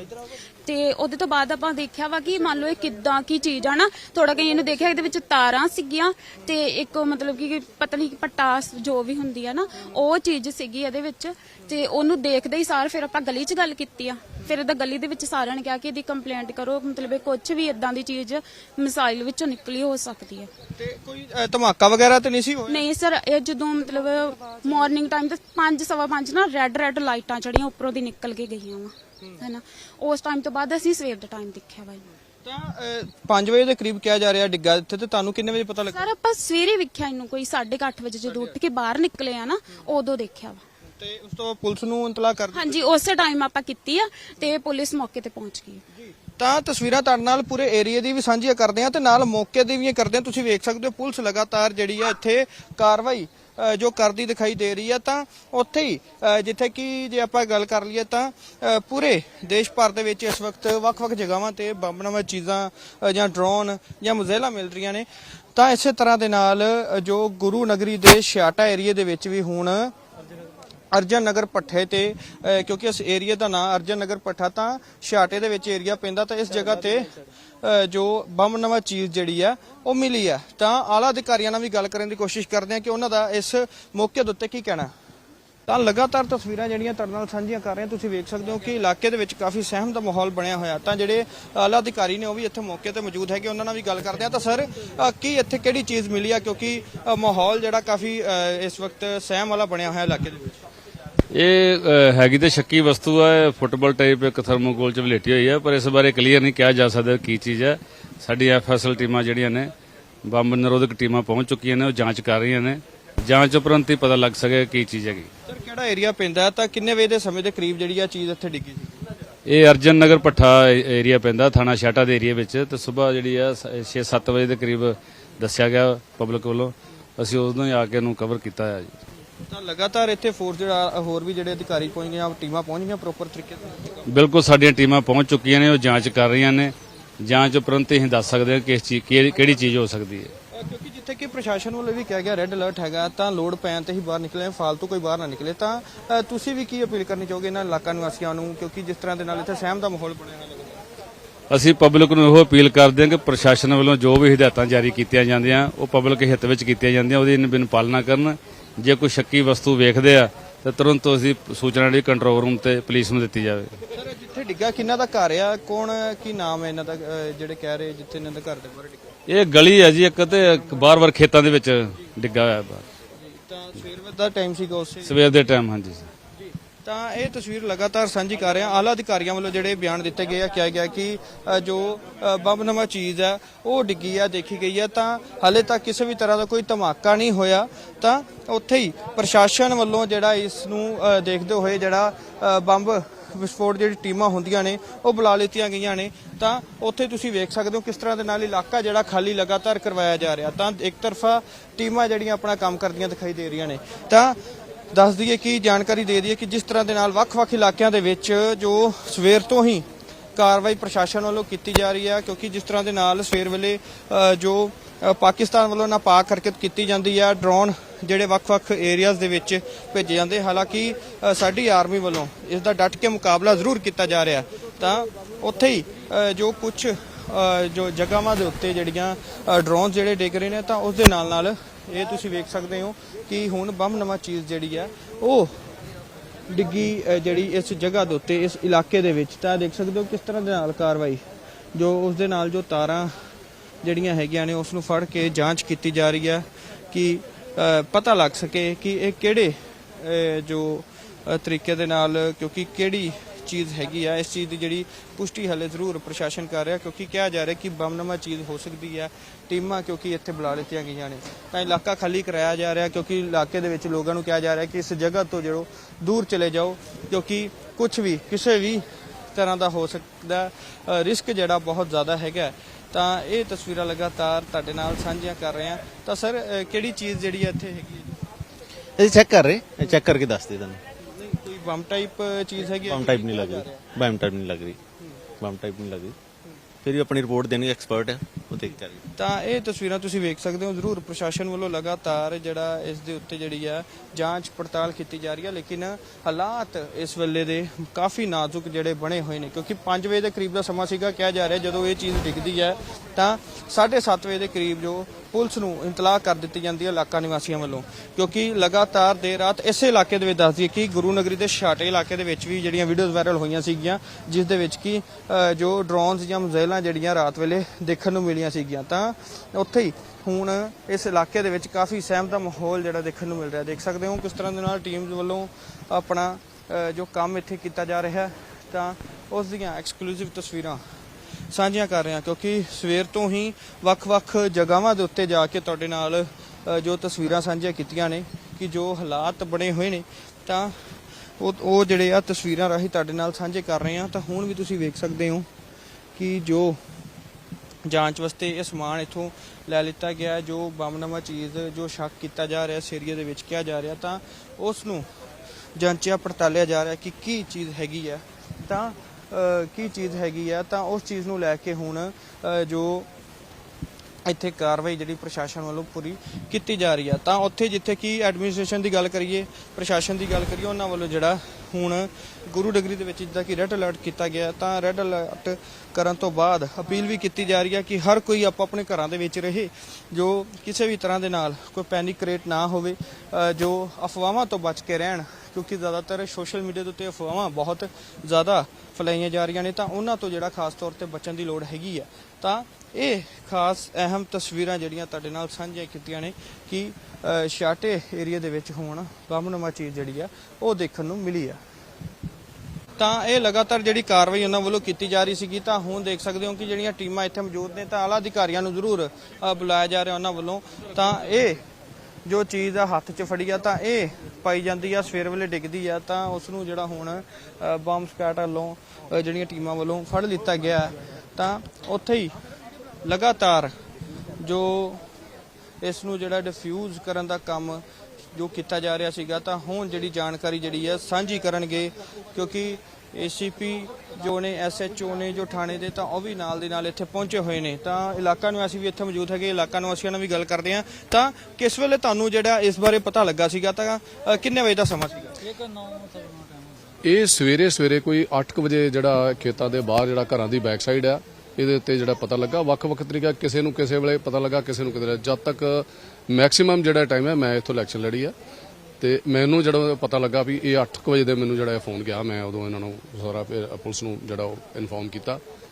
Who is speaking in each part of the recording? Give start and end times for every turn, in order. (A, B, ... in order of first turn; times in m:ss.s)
0:00.6-0:20.5 A
0:20.8-0:22.9 B
0:22.7-0:32.0 A
0:32.4-0:36.0 B
0:35.9-0:40.6 A
0:41.0-0:42.9 B
0:42.5-0:45.8 A
0:46.4-1:09.9 B
1:10.9-1:24.9 B
1:25.7-1:40.6 B
1:41.3-1:49.7 C
1:50.2-1:55.3 C
1:55.5-1:59.0 B
1:59.5-2:09.0 C
2:09.5-2:14.0 B
2:14.1-2:20.3 C
2:20.5-2:30.8 B
2:31.5-2:43.7 C
2:43.9-2:49.1 B
2:49.3-2:52.9 C
2:53.2-2:55.2 B
2:55.0-2:56.1 C
2:56.8-3:24.4 B
3:24.9-3:29.8 B
3:30.4-3:55.6 B
3:56.5-4:01.2 B
4:01.8-4:03.1 B
4:03.8-4:38.1 B
4:39.0-4:40.8 D
4:41.1-4:43.7 B
4:42.9-4:44.8 D
4:45.4-4:46.1 D
4:46.8-4:49.0 D
4:49.2-5:30.8 B
5:31.5-5:45.5 B
5:46.2-5:46.8 B
5:47.9-5:55.1 B
5:55.8-6:03.1 B
6:04.2-6:41.6 B
6:43.0-6:51.6 B
6:52.2-7:02.3 B
7:03.0-7:03.7 B
7:04.4-7:05.0 B
7:05.8-7:07.8 B
7:08.3-7:25.4 B
7:27.0-7:38.3 E
7:39.0-7:45.4 E